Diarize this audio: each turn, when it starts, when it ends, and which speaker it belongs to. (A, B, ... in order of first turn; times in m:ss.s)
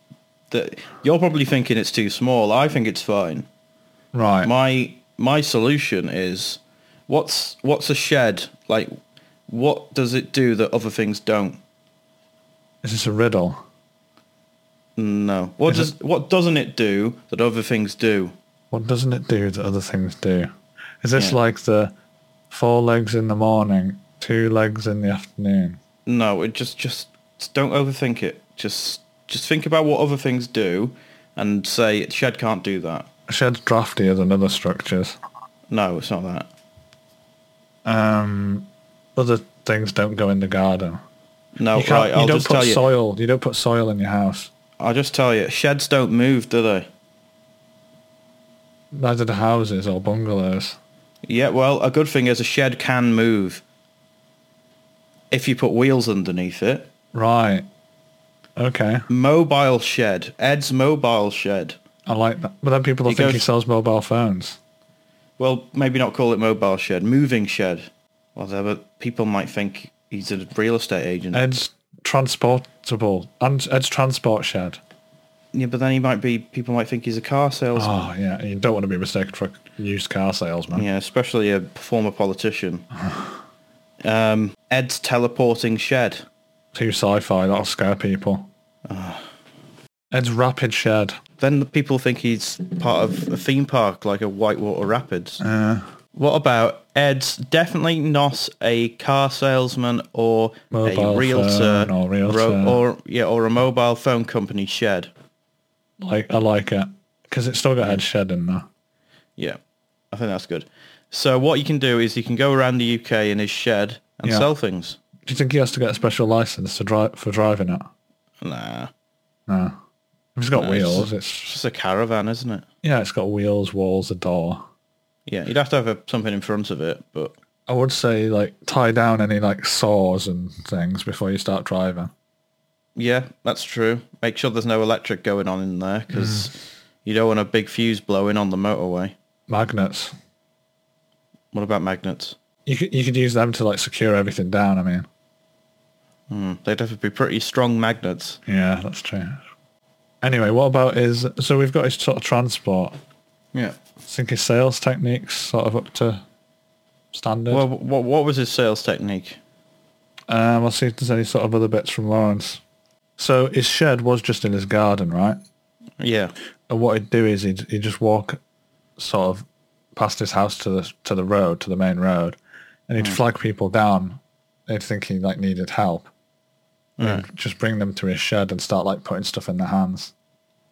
0:00.5-0:03.5 A
0:04.1-0:04.5 B
0:04.4-0:08.9 A
0:09.5-0:11.6 A
0:12.8-0:13.6 B
0:15.0-0:18.3 A
0:18.7-0:20.5 B
0:21.0-0:21.9 B
0:22.5-0:25.8 B
0:26.0-0:33.1 A
0:33.3-0:35.2 B
0:35.7-0:36.5 A
0:37.8-0:41.0 B
0:41.6-0:42.8 A
0:41.7-0:44.5 B
0:44.8-0:46.9 A
0:48.9-0:50.8 B
0:51.2-0:53.6 A
0:55.3-0:56.9 A
0:57.1-0:57.6 B
0:58.6-0:59.0 B
0:59.1-1:01.8 A
1:02.1-1:04.6 B
1:03.0-1:03.4 A
1:05.4-1:11.4 A
1:11.3-1:14.8 B
1:15.5-1:17.9 A
1:17.8-1:20.8 B
1:20.7-1:22.8 A
1:23.0-1:23.3 B
1:24.0-1:26.2 A
1:26.7-1:28.5 B
1:28.9-1:29.2 A
1:30.1-1:31.2 B
1:31.4-1:35.4 A
1:35.4-1:35.8 B
1:36.1-1:45.1 A
1:40.7-1:42.8 B
1:46.0-1:48.6 B
1:50.1-1:55.0 A
1:55.2-1:57.9 B
1:58.4-1:58.9 A
1:59.5-1:59.8 B
2:00.4-2:01.5 B
2:00.6-2:02.6 A
2:02.8-2:04.6 B
2:05.2-2:07.3 A
2:07.7-2:12.1 B
2:12.9-2:16.5 A
2:16.1-2:16.5 B
2:17.0-2:19.1 A
2:19.5-2:20.1 B
2:21.5-2:22.4 A
2:22.6-2:25.1 B
2:26.3-2:28.4 A
2:28.4-2:29.4 B
2:30.2-2:32.9 B
2:34.0-2:36.2 B
2:37.1-2:37.6 B
2:37.5-2:39.4 A
2:40.3-2:42.6 B
2:43.2-2:45.4 B
2:46.0-2:46.3 A
2:46.7-2:48.4 B
2:49.0-2:56.1 B
2:57.0-2:57.2 A
2:57.0-3:00.1 B